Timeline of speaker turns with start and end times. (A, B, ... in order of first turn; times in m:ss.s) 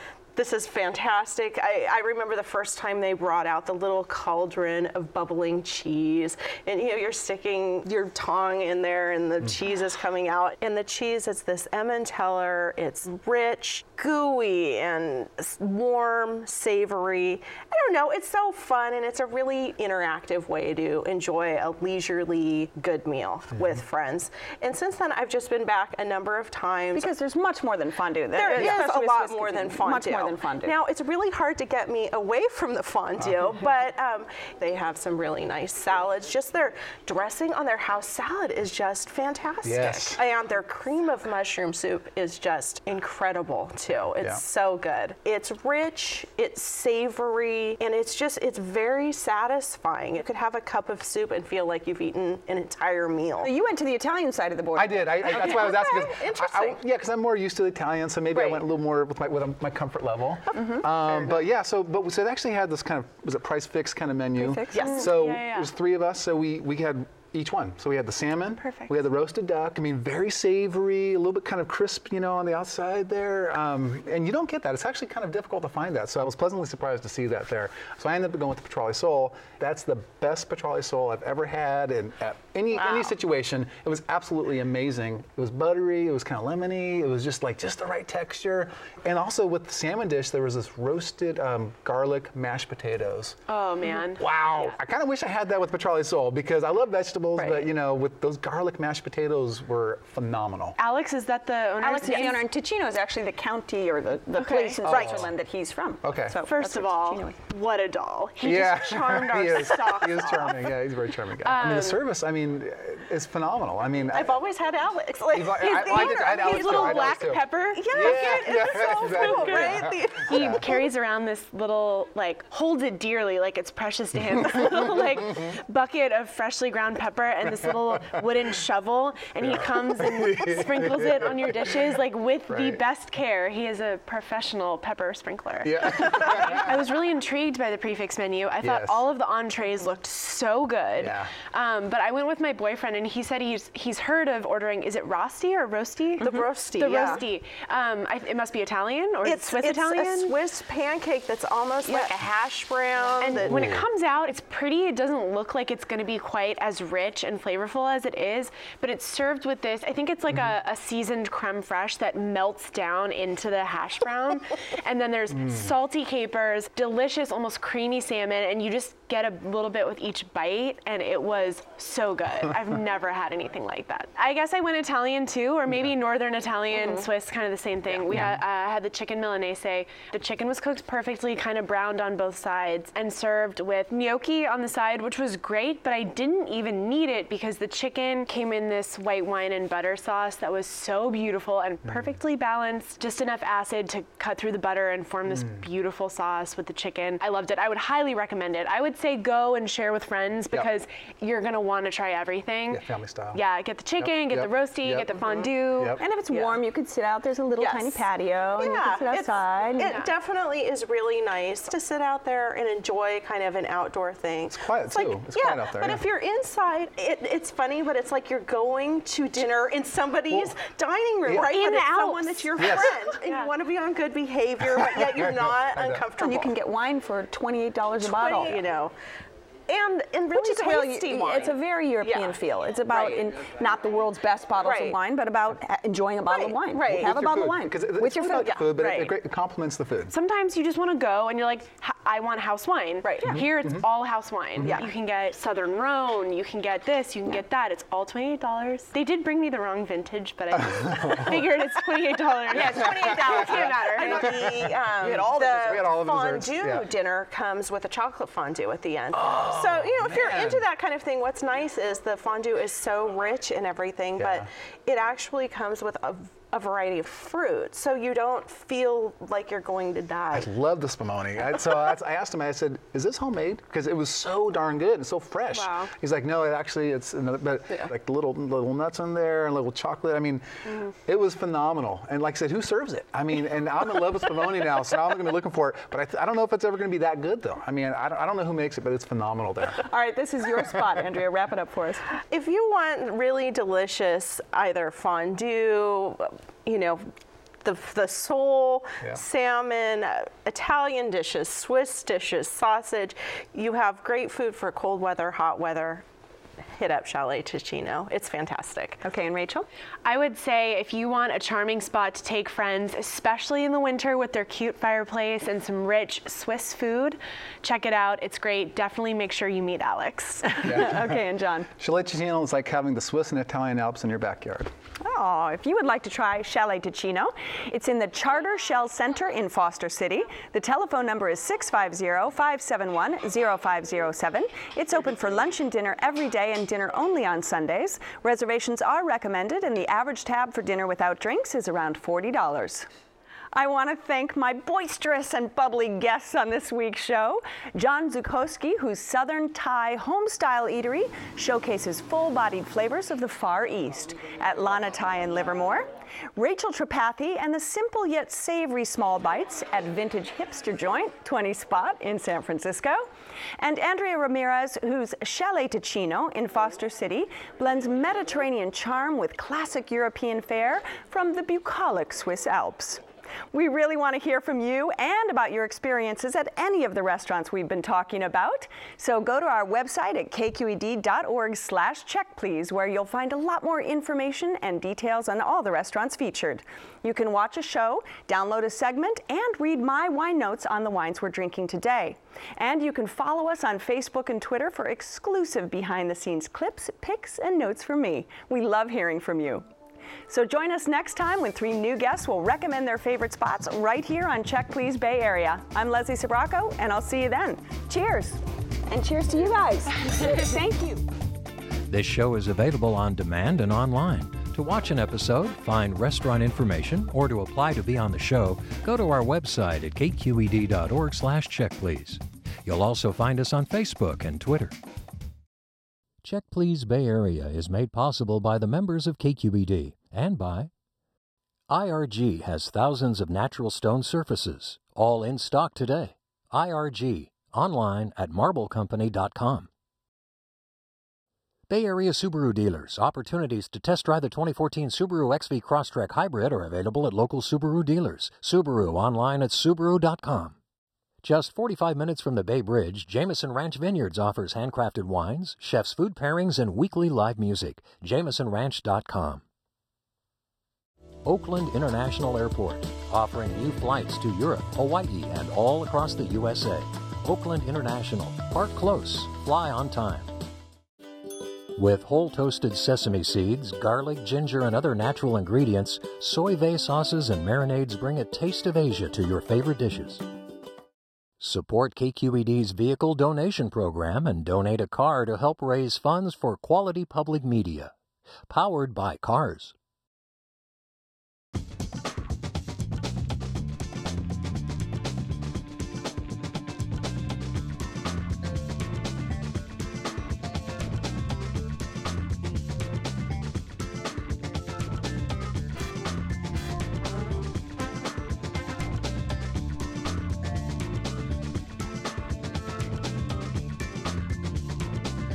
0:00.3-0:27.1 A
0:26.9-0:30.8 B
0:28.3-0:53.5 A
0:28.5-0:28.8 C
0:39.6-0:40.2 C
0:53.4-0:55.7 B
0:54.8-1:33.4 C
0:55.2-0:56.8 A
1:00.5-1:00.9 B
1:01.1-1:01.3 A
1:04.4-1:04.9 B
1:04.7-1:05.2 A
1:04.8-1:05.7 D
1:08.6-1:08.9 D
1:22.7-1:23.1 A
1:33.5-1:34.2 D
1:34.2-1:40.8 C
1:37.4-1:37.7 B
1:40.8-1:42.4 D
1:41.8-1:47.4 B
1:44.4-1:44.8 D
1:44.8-1:45.3 C
1:44.9-1:45.2 A
1:46.0-1:46.4 C
1:46.4-1:50.4 D
1:48.4-1:54.4 C
1:51.4-1:52.0 D
1:54.1-2:00.8 A
1:55.3-2:00.6 C
1:55.6-2:30.3 D
2:09.4-2:11.8 C
2:12.5-2:12.8 C
2:15.6-2:16.7 C
2:18.6-2:19.0 C
2:21.0-2:21.3 C
2:26.2-2:27.2 A
2:29.2-2:33.7 A
2:33.2-3:22.8 D
2:33.5-2:33.8 C
2:45.4-2:45.7 C
2:56.7-2:57.0 A
2:58.1-2:58.4 C
3:11.8-3:12.1 C
3:15.3-3:15.6 C
3:22.7-3:23.4 C
3:23.3-3:26.0 D
3:24.0-3:25.2 C
3:25.7-3:26.0 C
3:26.0-3:29.9 B
3:26.3-3:26.6 A
3:27.6-3:28.0 A
3:28.6-3:46.5 A
3:29.8-3:30.1 D
3:34.5-3:36.0 C
3:41.3-3:43.5 D
3:42.6-3:42.9 C
3:44.6-3:46.0 C
3:46.2-3:48.6 B
3:48.0-3:48.9 A
3:49.7-3:53.2 A
3:50.3-3:58.6 B
3:54.6-3:55.0 A
3:56.3-3:57.1 A
3:56.9-4:00.1 C
3:58.4-3:59.0 A
4:00.1-4:14.3 D
4:03.0-4:03.4 A
4:03.3-4:03.9 C
4:04.6-4:04.9 A
4:10.9-4:11.3 C
4:12.5-4:14.3 B
4:13.0-4:16.9 C
4:13.9-4:30.5 A
4:19.1-4:20.6 C
4:24.2-4:24.5 C
4:30.3-4:40.4 C
4:35.5-4:35.8 A
4:41.0-4:49.8 C
4:49.8-4:52.0 B
4:52.3-4:57.1 A
4:57.6-5:06.0 A
5:06.8-5:09.0 A
5:09.0-5:09.7 B
5:10.0-5:20.6 D
5:20.4-5:21.7 B
5:20.6-5:21.2 C
5:21.8-5:24.7 C
5:25.0-5:42.9 B
5:43.5-6:03.0 B
6:03.6-6:39.6 B
6:40.3-6:51.1 B
6:51.9-7:04.7 E
7:06.2-7:10.7 E
7:11.7-7:19.7 E
7:21.7-7:30.6 E
7:31.2-7:39.4 E
7:41.2-7:50.3 E
7:51.8-8:00.3 E
8:01.4-8:07.9 E
8:08.5-8:09.7 E